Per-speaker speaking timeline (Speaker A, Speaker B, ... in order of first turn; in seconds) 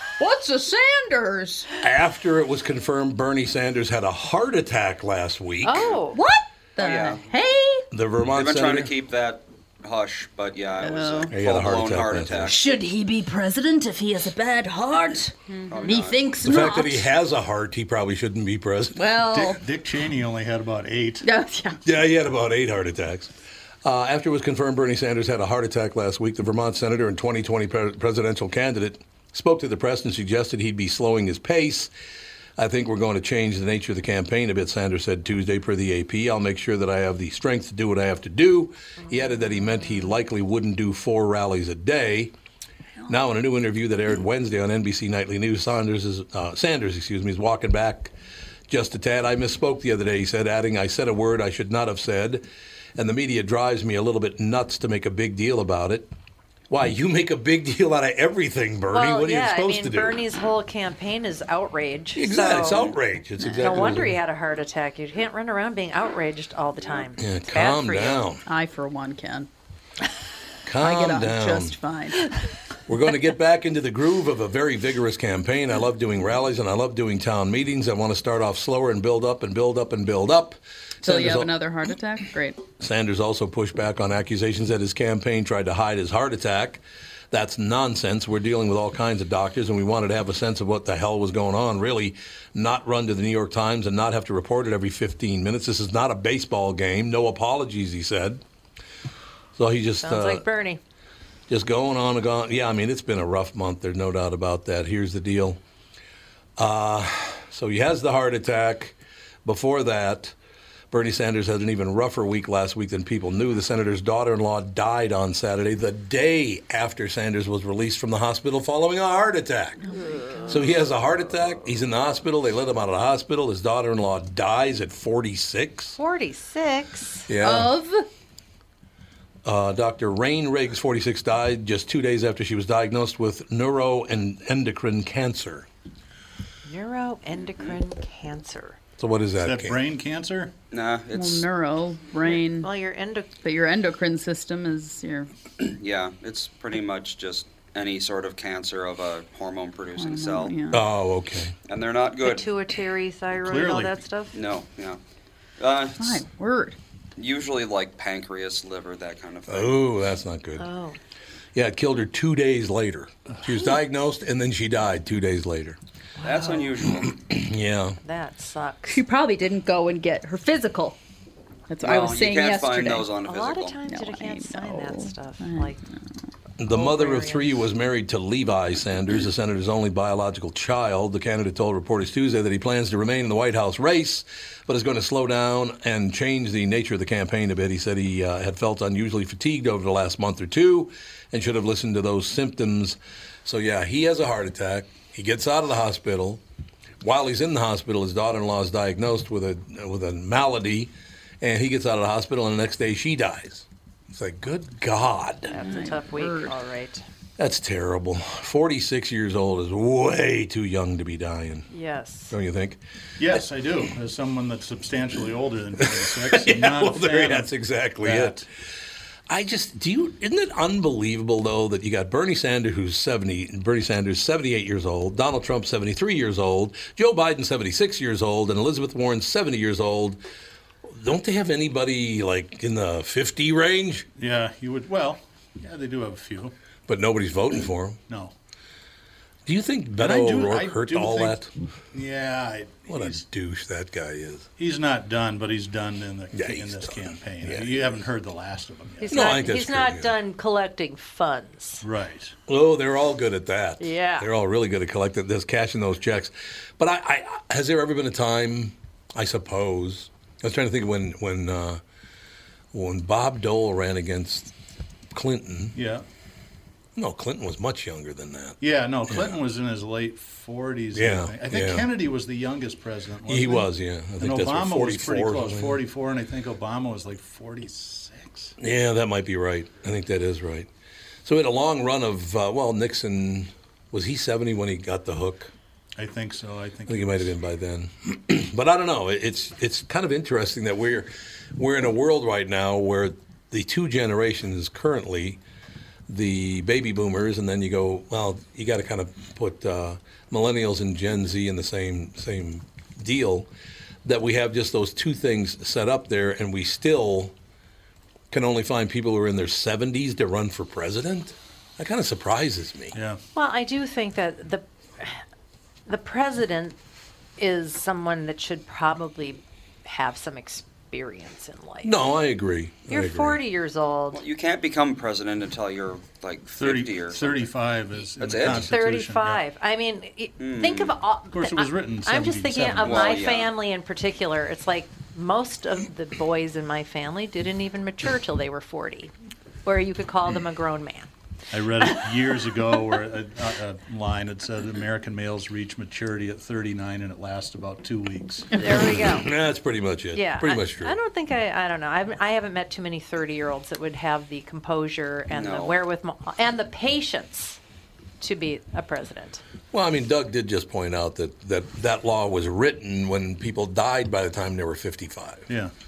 Speaker A: 0.2-1.7, 6.1-7.9, 10.8-11.3, 12.4-17.1, 19.0-19.6, 21.2-21.8, 68.5-69.5, 70.8-72.2, 81.0-82.6, 119.9-120.5, 127.4-128.1, 141.1-142.7, 143.4-145.3, 150.0-150.8, 156.0-156.8, 168.9-171.0, 171.7-173.1, 173.9-175.7, 205.6-206.5
Speaker B: 1.8-5.9, 7.9-8.9, 11.3-12.5, 16.4-19.1, 21.9-23.3, 23.8-31.9, 32.6-42.3, 43.1-48.1, 48.7-52.5, 53.0-56.1, 56.7-60.2, 62.1-64.2, 67.2-68.4, 70.7-71.8, 72.9-81.5, 82.8-98.4, 99.6-100.5, 101.5-105.6, 106.6-110.3, 110.9-119.8, 120.5-126.0, 127.3-127.7, 129.4-135.7, 139.0-139.8, 150.7-151.6, 159.5-160.7, 161.6-165.8, 167.0-168.0, 176.6-196.4, 197.0-205.6, 207.4-211.7, 212.3-212.8, 215.8-218.4, 219.3-230.2, 230.9-234.1, 236.9-238.0, 239.5-241.5, 242.9-244.5, 246.3-247.9, 249.1-250.2, 252.5-261.8, 262.7-264.5, 265.1-265.8, 267.0-269.4, 270.9-271.9, 273.3-275.8, 278.6-280.7, 281.2-285.5, 286.9-295.4, 296.1-303.5, 304.1-307.3, 308.3-313.0, 321.8-323.4, 348.8-351.0, 359.7-365.5
Speaker C: 5.6-6.2, 58.9-63.0, 63.5-68.2, 100.0-100.8, 126.0-127.3, 136.7-138.8, 142.3-143.3, 152.2-154.3, 160.6-161.0, 166.2-166.9, 168.0-169.0, 173.2-175.8, 176.7-177.6, 205.5-207.1, 211.7-212.3, 249.0-251.8, 253.8-254.3, 313.4-315.2, 315.9-316.8, 317.4-321.9, 322.9-324.2, 328.5-339.1, 339.6-341.1, 348.6-349.3, 350.1-357.6, 358.2-359.4
Speaker D: 6.8-7.3, 8.3-12.7, 15.7-16.3, 140.7-141.5, 145.6-150.6, 151.7-152.5, 154.3-155.0, 155.6-156.2, 157.2-159.8, 166.2-167.1, 171.8-173.8, 324.1-327.5, 328.2-328.7, 330.4-331.0, 332.8-333.5, 355.3-355.8
Speaker E: 19.3-21.3, 139.4-140.5, 153.4-154.0, 213.2-218.4, 234.2-236.5, 240.0-241.4, 241.9-243.2, 244.6-249.4, 251.8-252.3, 265.8-266.1, 268.6-273.7, 274.2-278.6, 286.0-287.3, 312.9-313.2, 326.5-329.4, 331.3-333.2, 341.5-348.7